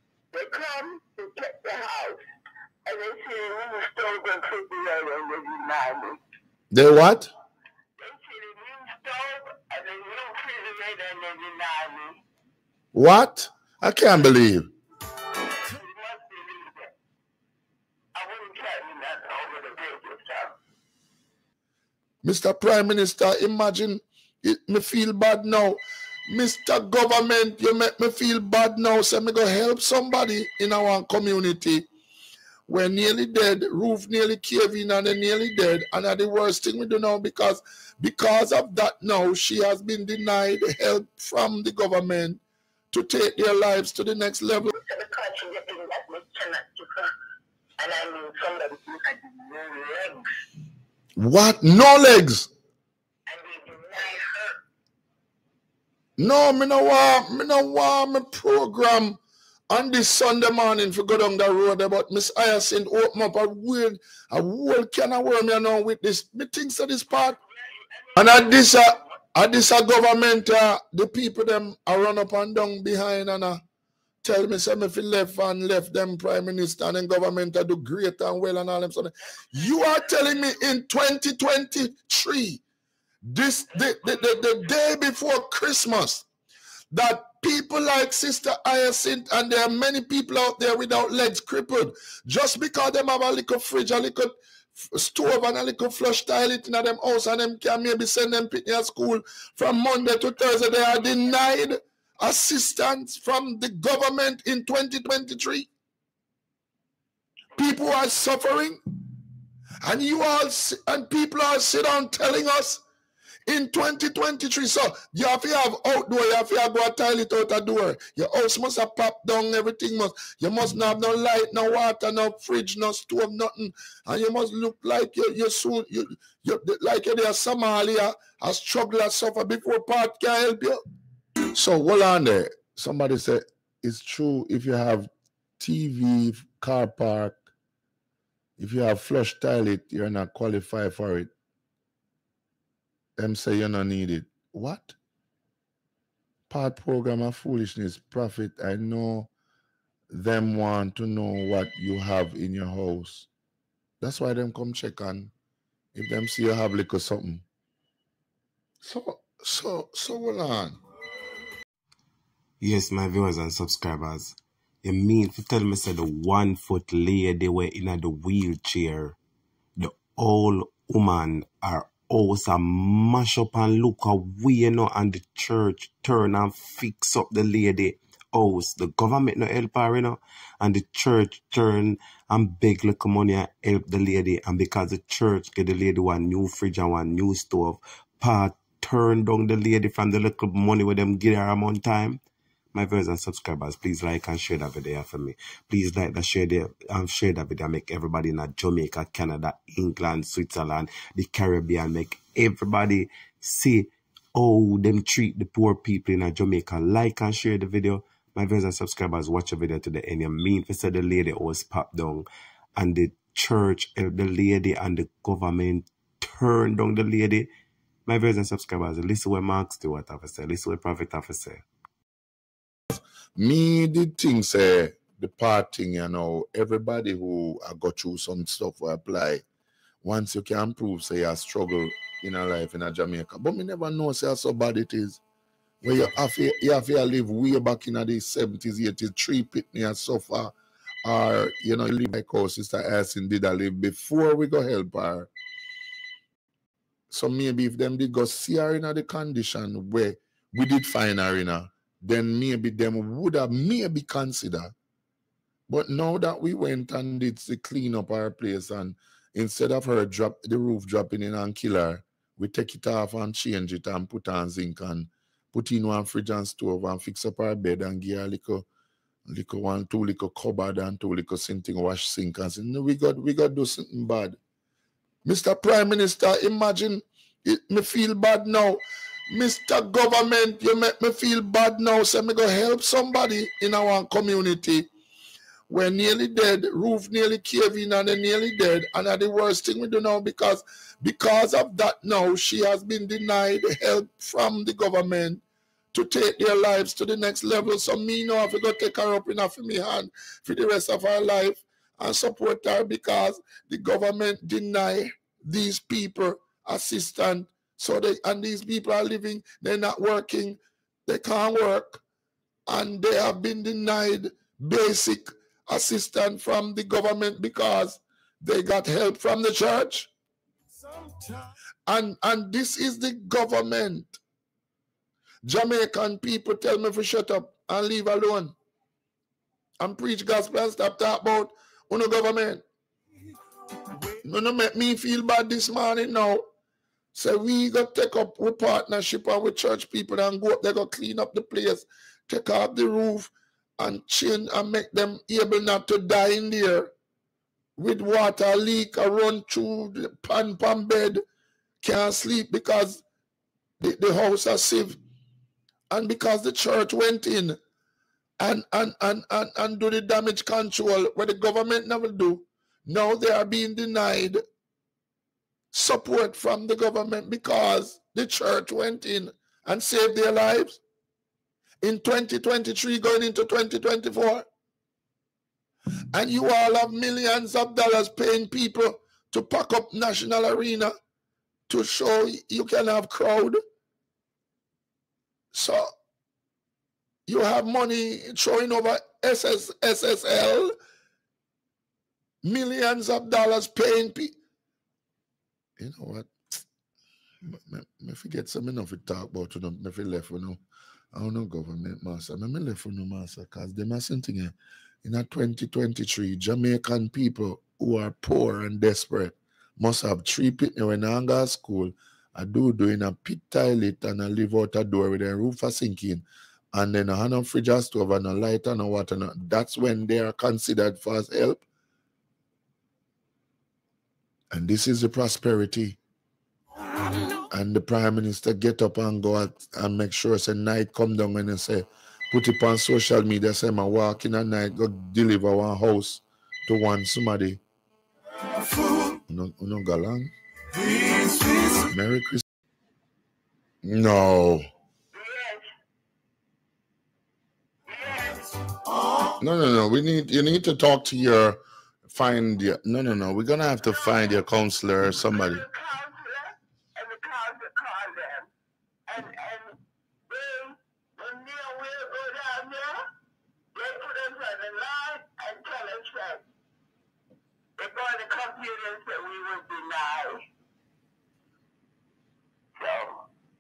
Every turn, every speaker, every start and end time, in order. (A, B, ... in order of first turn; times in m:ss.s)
0:00.3-0:02.2 A
0:02.9-0:06.2 A
0:06.7-0:07.3 B
0:08.0-0:12.2 A
0:12.9-0:14.7 B
0:15.6-0:16.9 A
0:18.2-0:20.6 A
0:22.2-0:31.8 B
0:32.7-0:42.4 B
0:42.9-0:44.7 B
0:44.7-0:47.1 A
0:47.8-0:50.3 A
0:51.2-0:52.5 B
0:53.3-0:54.6 A
0:56.2-0:59.2 B
0:59.7-1:07.4 B
1:07.4-1:09.1 A
1:08.2-1:13.6 B
1:14.2-1:22.6 B
1:19.6-1:20.2 A
1:23.2-1:26.3 B
1:23.8-1:24.4 A
1:26.9-1:45.7 B
1:47.6-1:48.8 B
1:49.8-1:52.8 B
1:53.5-2:10.8 B
2:11.5-2:17.4 B
2:18.6-2:21.3 B
2:23.2-2:25.0 B
2:26.5-2:29.3 B
2:30.1-2:33.3 B
2:34.0-2:35.3 B
2:35.9-2:37.4 B
2:38.8-2:40.8 B
2:42.6-2:49.2 C
2:49.8-3:12.2 C
3:12.7-3:37.5 C
3:38.1-3:41.6 C
3:42.9-3:49.4 B
3:50.0-3:55.2 B
3:55.8-4:05.3 B
4:07.1-4:14.7 B
4:15.7-4:28.7 B
4:29.3-4:34.4 B
4:35.2-4:44.9 B
4:45.7-5:12.0 B
5:12.7-5:20.1 B
5:21.9-5:24.2 B
5:25.4-5:28.5 B
5:29.8-5:32.6 B
5:34.1-5:36.4 B
5:37.1-5:46.9 B
5:47.8-5:51.2 B
5:51.8-5:53.0 B
5:53.8-5:55.0 B
5:55.9-5:57.6 B
5:58.4-6:04.4 B
6:05.7-6:10.8 B
6:11.8-6:14.4 B
6:16.1-6:20.9 B
6:21.7-6:23.6 B
6:25.5-6:25.9 B
6:27.3-6:30.7 B
6:32.4-6:34.3 B
6:35.8-6:36.6 B
6:37.4-6:40.6 B
6:41.1-7:01.6 B
7:04.5-7:06.0 B
7:07.5-7:17.6 B
7:19.3-7:20.3 B
7:21.7-7:22.4 B
7:23.8-7:24.6 B
7:25.1-7:25.7 A
7:27.9-7:28.5 A
7:29.4-7:35.6 B
7:33.8-7:34.4 A
7:35.3-7:38.5 A
7:39.1-7:39.8 A
7:40.3-7:43.0 A
7:43.7-7:46.4 A
7:47.8-7:50.4 A
7:52.8-7:53.2 A